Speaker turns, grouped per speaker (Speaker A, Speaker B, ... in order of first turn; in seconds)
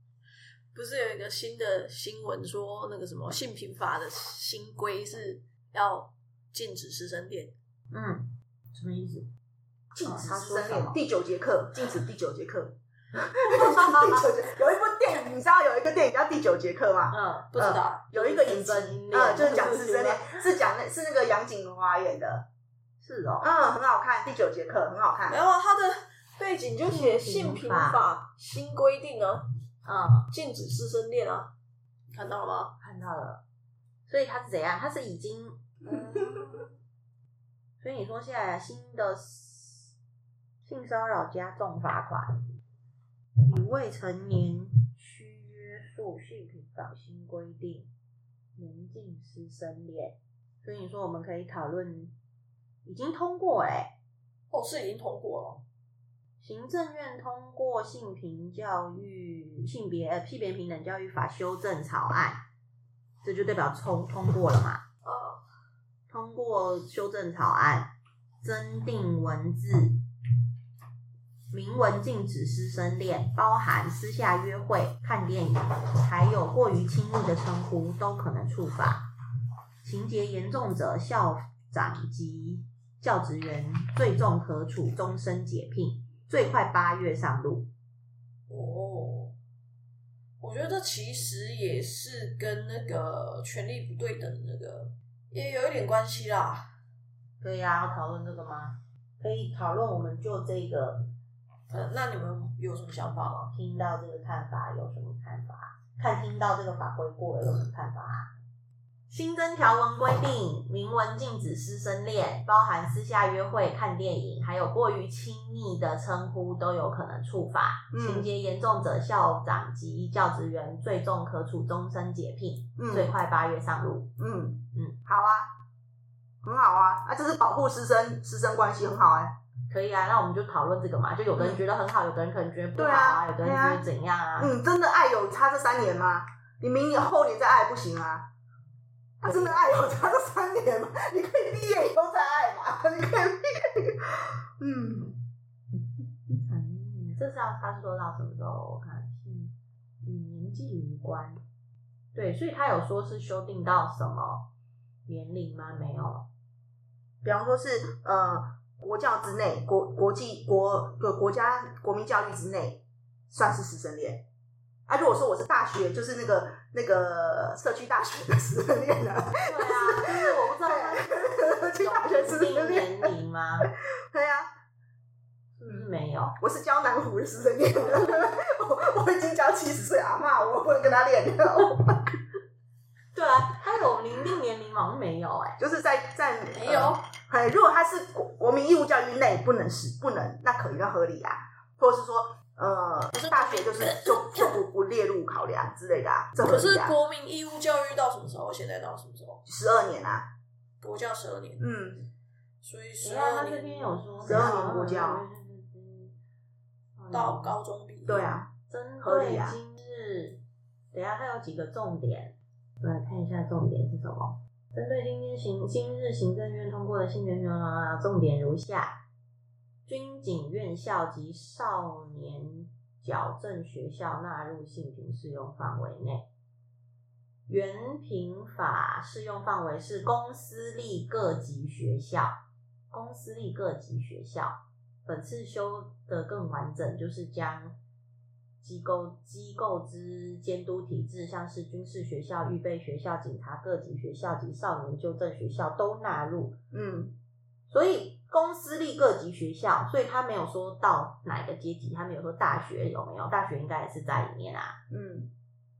Speaker A: 0.7-7.5, 17.5-18.2, 25.3-29.5, 30.3-31.5, 32.1-32.8, 54.5-55.6, 65.0-65.4, 88.5-89.3, 90.4-96.7, 101.7-103.5, 186.5-187.0, 193.1-194.6, 196.4-199.4, 200.8-201.7, 202.6-204.5, 207.1-208.3
Speaker B: 7.9-9.3, 10.0-11.0, 13.4-14.3, 17.1-17.5, 18.1-20.4, 23.0-23.5, 26.9-28.0, 29.9-30.3, 32.8-33.4, 34.1-36.7, 37.8-39.9, 40.6-42.3, 43.5-47.9, 48.6-52.1, 52.8-53.9, 56.4-62.4, 63.2-64.8, 66.1-67.9, 68.4-70.0, 71.5-79.1, 79.8-87.7, 97.4-101.1, 103.3-108.3, 109.1-124.1, 129.7-134.6, 139.2-140.2, 146.3-151.4, 152.1-154.5, 155.1-156.3, 169.4-173.7, 175.6-176.4, 183.1-185.6, 203.0-206.2, 207.0-207.6, 208.7-210.4, 210.9-219.0, 219.9-226.3, 227.5-232.4, 232.9-237.8, 238.6-246.6, 247.7-254.8
Speaker C: 9.9-22.5, 23.4-25.4, 117.9-118.3, 122.8-123.1, 124.2-125.5, 126.4-129.4, 131.4-131.6, 132.8-133.9, 134.4-138.3, 139.2-145.2, 157.2-164.2, 164.9-173.1, 174.1-174.5, 176.4-182.1, 185.6-197.0, 199.5-200.3, 201.6-202.1, 204.2-205.2, 208.1-208.5, 209.0-209.6, 246.7-247.1, 254.9-255.3